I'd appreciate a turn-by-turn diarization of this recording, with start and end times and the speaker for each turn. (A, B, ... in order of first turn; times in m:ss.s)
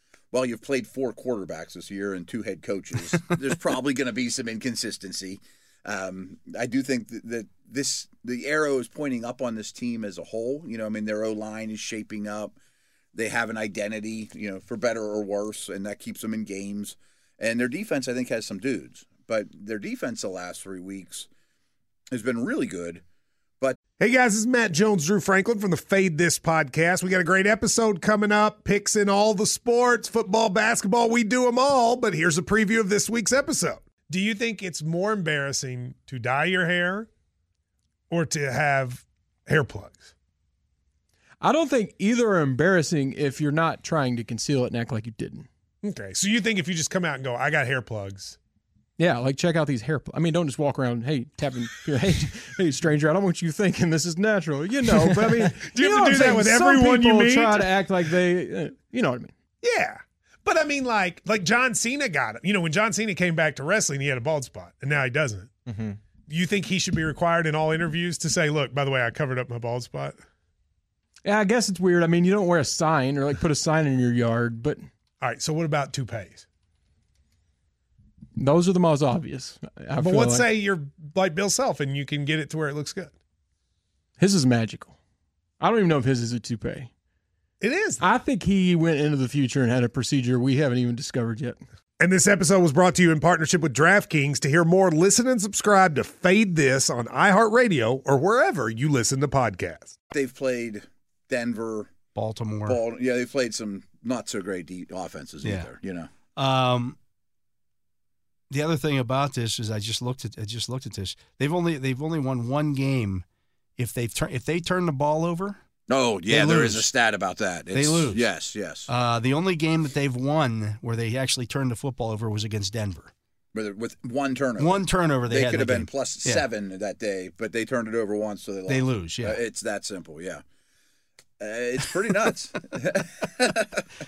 0:00.3-0:12.6 A
0:13.1-0:21.3 A
0:22.1-0:23.0 A
0:24.0-0:37.1 B
0:38.1-0:40.1 B
0:41.4-0:45.5 C
0:45.8-0:48.4 B
0:49.0-0:59.3 C
0:54.9-0:57.8 B
0:59.6-1:05.6 B
1:05.7-1:06.0 C
1:06.3-1:10.2 B
1:11.2-1:14.9 C
1:15.2-1:16.4 B
1:18.4-1:20.5 C
1:20.0-1:23.1 B
1:24.2-1:25.0 C
1:25.6-1:26.9 C
1:27.6-1:28.0 B
1:28.0-1:31.6 C
1:32.0-1:39.9 B
1:40.1-1:41.9 A
1:42.1-1:42.8 D
1:42.6-1:46.1 A
1:45.4-1:45.7 D
1:46.4-1:47.0 D
1:48.5-1:53.2 D
1:53.8-1:55.6 D
1:55.9-1:58.9 A
1:56.3-1:56.9 D
1:57.7-1:58.2 D
1:58.9-2:03.1 D
2:03.5-2:10.4 A
2:04.6-2:06.4 D
2:08.7-2:09.4 D
2:11.4-2:13.8 A